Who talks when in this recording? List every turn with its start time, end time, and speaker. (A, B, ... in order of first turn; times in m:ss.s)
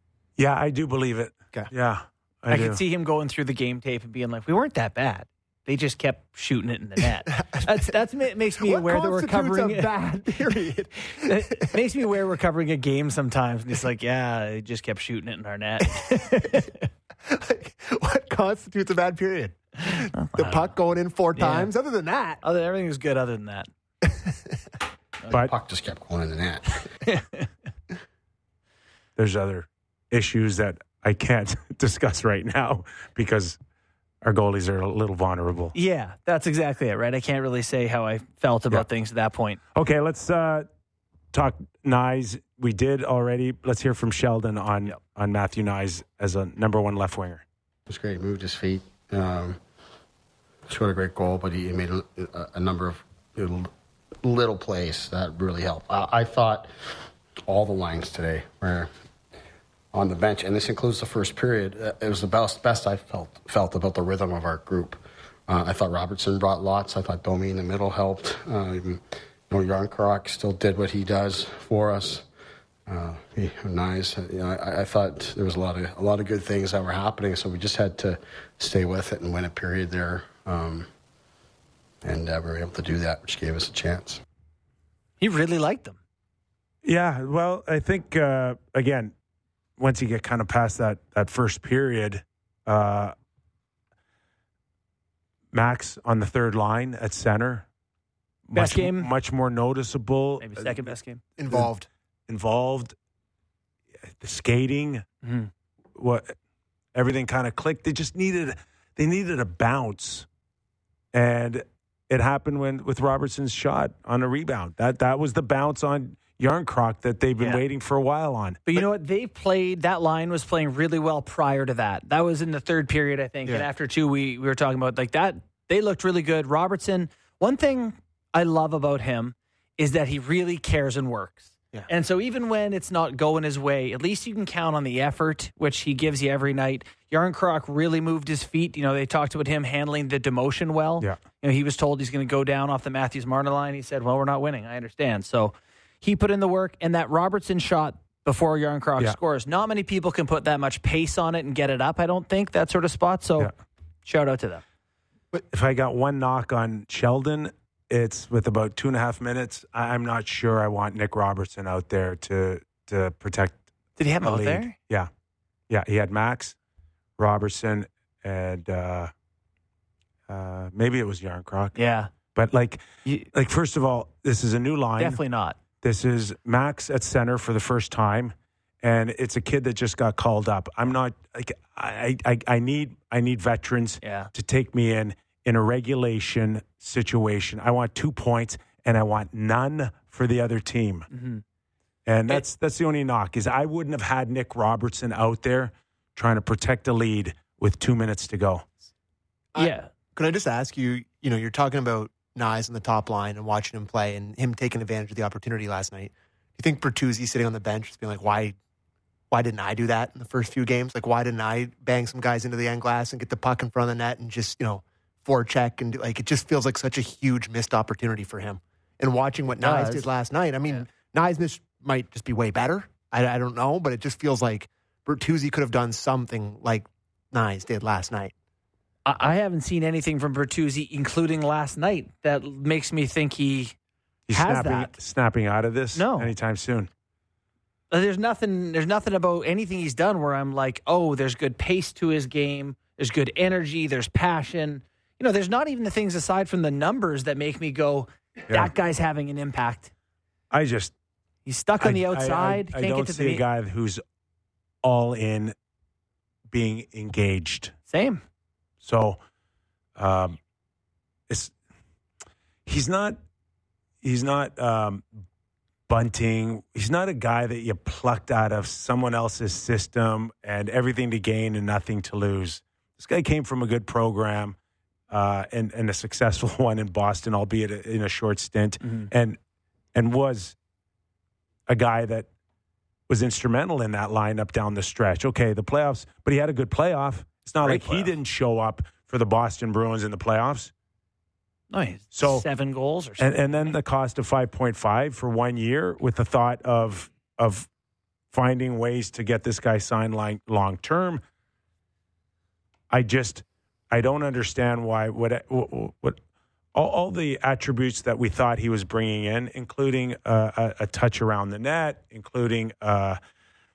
0:00.4-0:02.8 A
0:02.5-0:16.9 B
0:07.3-0:07.9 C
0:08.6-0:11.8 C
0:16.0-0:16.6 C
0:17.2-0:22.4 C
0:19.8-0:20.7 B
0:21.4-0:21.7 B
0:22.4-0:23.7 B
0:24.0-0:24.3 C
0:25.3-0:26.8 D
0:27.0-0:27.5 B
0:29.2-0:33.6 A
0:34.2-0:35.7 A
0:35.7-0:39.6 B
0:39.7-0:40.7 A
0:41.3-0:47.4 A
0:47.9-0:49.6 D
0:50.7-0:53.7 D
0:54.2-0:56.7 D
0:57.5-0:58.9 D
0:59.9-1:12.3 D
1:12.9-1:20.9 D
1:22.0-1:24.2 D
1:25.2-1:26.0 B
1:26.8-1:29.1 A
1:29.8-1:33.1 A
1:35.5-1:37.7 A
1:38.5-1:40.8 A
1:38.6-1:39.1 B
1:40.4-1:41.2 B
1:41.4-1:41.9 C
1:42.3-1:42.9 A
1:44.2-1:45.0 A
1:45.2-1:45.5 B
1:46.0-1:46.3 A
1:47.0-1:50.3 A
1:51.1-1:58.8 A
1:58.7-2:33.5 B
2:34.0-2:34.6 B
2:35.5-2:43.6 A
2:44.0-2:44.8 B
2:44.2-2:45.1 A
2:45.7-2:46.6 A
2:47.2-2:49.1 A
2:50.3-2:51.8 A
2:51.8-2:52.1 B
2:52.4-2:55.2 A
2:55.0-2:55.6 B
2:55.8-3:11.1 A
3:04.0-3:04.3 B
3:11.1-3:11.4 B
3:12.1-3:18.6 A
3:19.5-3:28.6 C
3:19.6-3:19.9 B
3:29.3-3:48.3 C
3:39.6-3:40.1 B
3:49.1-3:53.8 B
3:54.3-3:56.9 A
3:54.3-3:54.9 B
3:56.0-3:56.3 B
3:57.9-4:09.9 B
4:10.5-4:10.9 A
4:11.5-4:13.4 B
4:11.8-4:14.0 A
4:14.8-4:15.5 A
4:16.5-4:17.7 A
4:17.9-4:18.2 B
4:18.8-4:19.2 A
4:20.0-4:20.4 A
4:22.7-4:23.2 A
4:24.0-4:25.0 A
4:25.9-4:34.6 A
4:35.1-4:39.4 A
4:38.8-4:39.1 B
4:40.0-4:40.6 A
4:41.7-4:42.3 A
4:43.1-4:50.7 A
4:47.6-4:48.1 B
4:51.7-4:53.7 B
4:52.1-4:52.4 A
4:53.2-4:57.7 A
4:58.3-5:01.2 A
5:02.9-5:06.2 A
5:06.7-5:13.2 A